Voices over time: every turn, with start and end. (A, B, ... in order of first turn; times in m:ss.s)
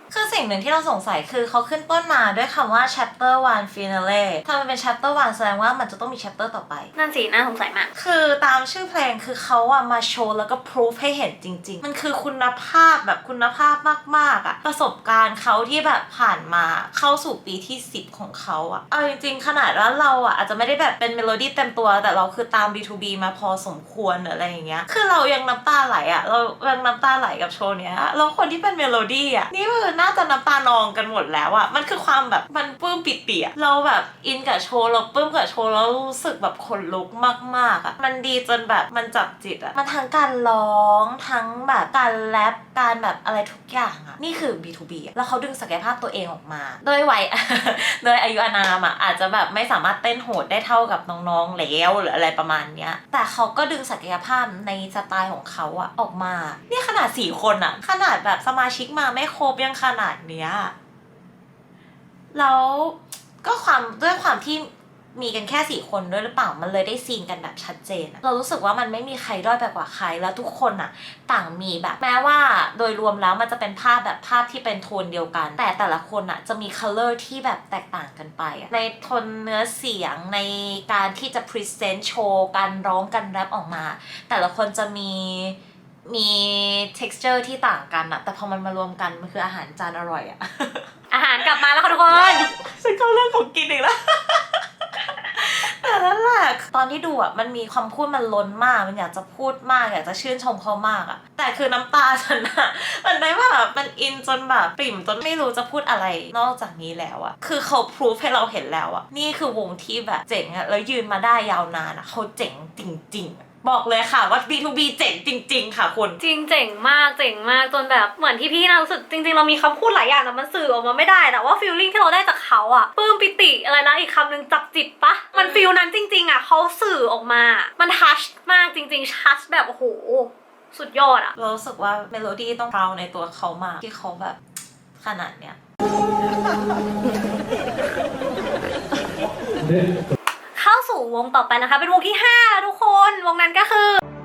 0:00.1-0:06.9 A
0:07.0-0:07.9 B
0:07.9-1:00.7 A
1:02.3-1:34.6 A
1:31.1-1:32.4 B
1:35.3-1:56.2 A
1:56.2-2:11.3 B
2:05.4-2:05.6 A
2:11.4-2:14.4 A
2:15.0-2:15.6 A
2:20.5-2:24.0 B